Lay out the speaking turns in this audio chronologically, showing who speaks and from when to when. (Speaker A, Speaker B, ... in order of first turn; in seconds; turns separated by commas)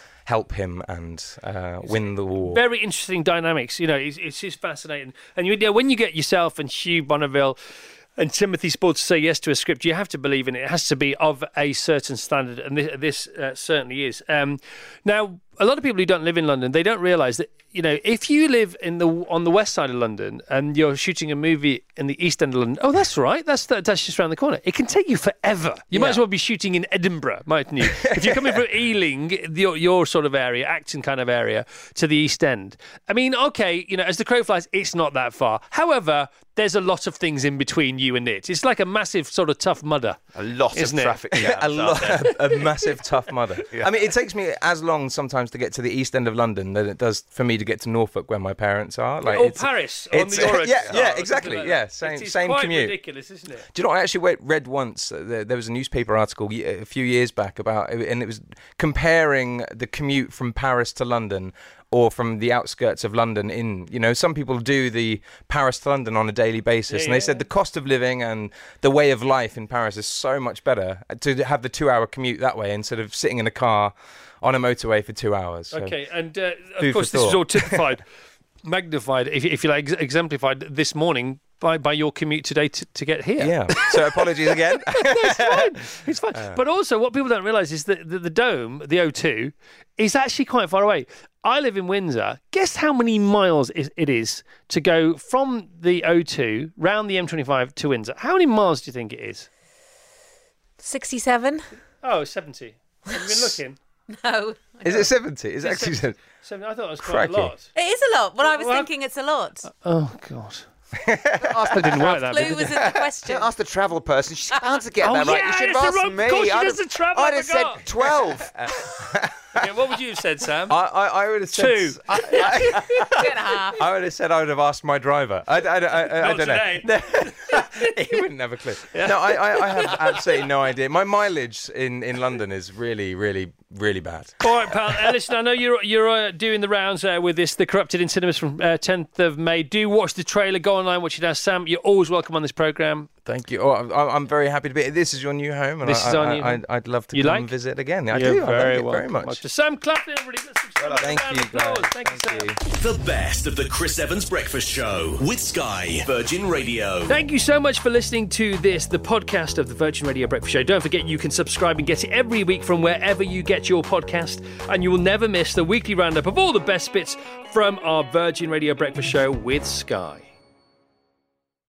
Speaker A: 0.2-2.6, Speaker B: 1.8-7.6, Speaker B: 8.2-40.2, Speaker A: 25.9-26.2, Speaker A: 27.8-28.6, Speaker C: 40.3-42.3, Speaker B: 40.7-41.2, Speaker A: 41.3-53.0, Speaker B: 49.2-53.7, Speaker A: 53.7-76.0, Speaker B: 66.9-67.5, Speaker B: 75.7-78.0, Speaker A: 76.8-77.8, Speaker B: 78.6-83.9, Speaker A: 83.4-86.6, Speaker B: 84.9-99.5, Speaker D: 100.8-101.6, Speaker B: 102.0-103.8, Speaker D: 104.1-105.1, Speaker A: 104.8-106.2, Speaker B: 105.6-107.7, Speaker A: 107.0-107.6, Speaker D: 107.7-109.7, Speaker B: 108.4-108.9, Speaker B: 109.7-110.7, Speaker A: 111.0-111.9, Speaker B: 111.5-112.8, Speaker D: 111.9-113.5, Speaker C: 113.2-118.5, Speaker B: 115.0-117.8, Speaker A: 118.6-119.6, Speaker B: 119.5-120.8, Speaker A: 120.7-134.4, Speaker B: 121.5-123.0, Speaker D: 123.2-123.8, Speaker B: 126.2-127.9, Speaker B: 128.9-130.2, Speaker B: 134.4-143.1, Speaker A: 143.2-149.4, Speaker B: 145.8-147.5, Speaker B: 148.1-152.5, Speaker A: 150.8-152.6, Speaker E: 152.7-157.2, Speaker B: 157.1-170.3